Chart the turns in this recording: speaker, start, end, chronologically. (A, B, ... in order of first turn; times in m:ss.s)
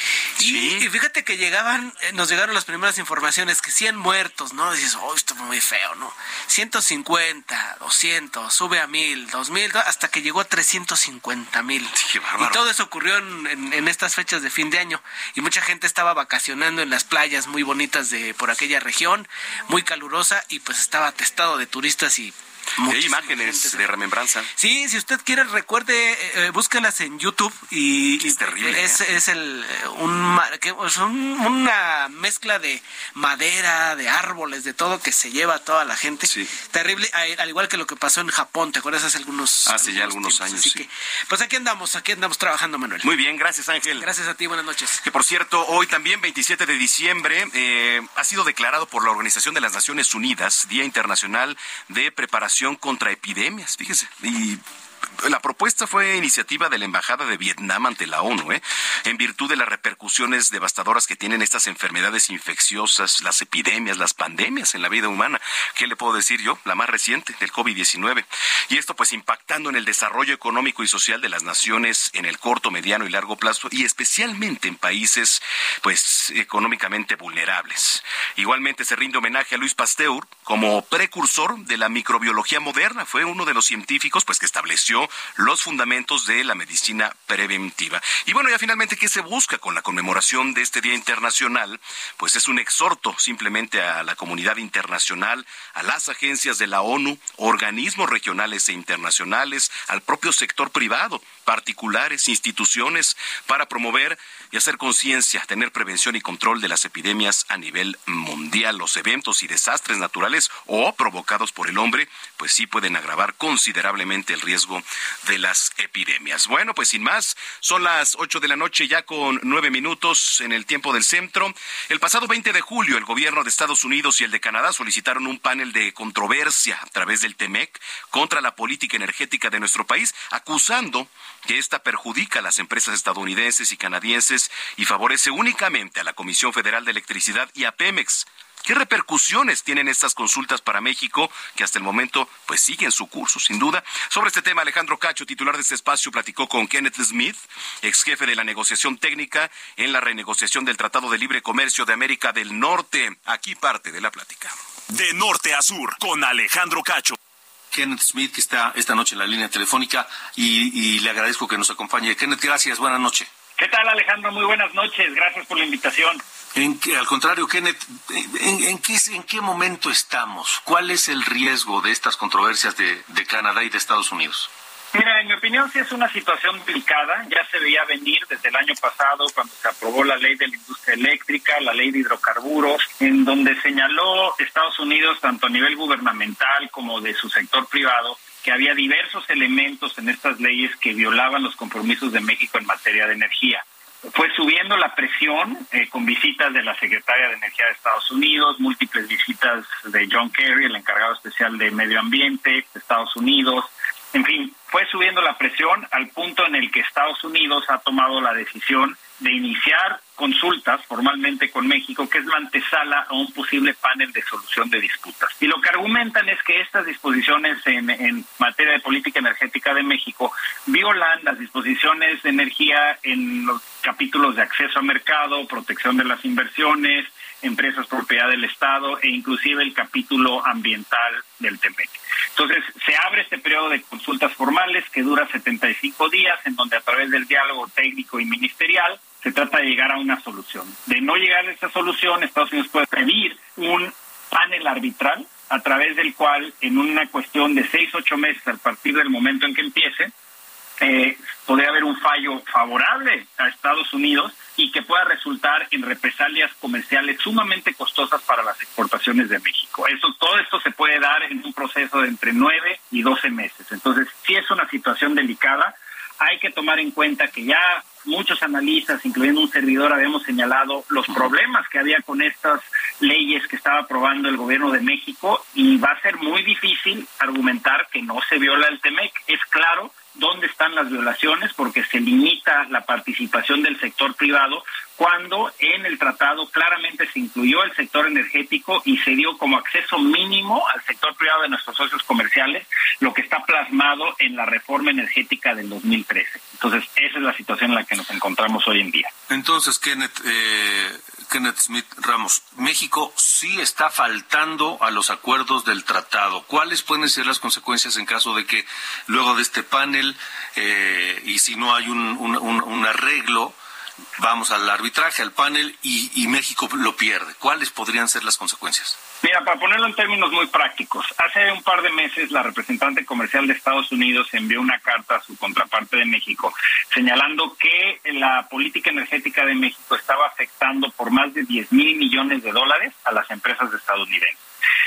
0:00.4-0:23.8 A
0:00.4-0:00.9 B
0:11.9-0:12.6 B
0:22.8-0:24.5 B
0:24.6-0:43.1 A
0:28.2-0:29.0 B
0:36.2-0:36.5 B
0:39.6-0:40.8 B
0:43.0-0:44.1 B
0:44.0-0:45.0 A
0:45.0-0:54.6 B
0:55.2-2:34.6 B
2:34.9-2:37.2 C
2:37.7-2:43.3 D
2:43.6-2:46.2 E
2:46.5-2:54.5 D
2:54.9-4:10.1 E
4:10.8-4:59.1 E
4:59.3-5:13.6 D
5:14.2-5:19.0 D
5:19.2-5:34.4 E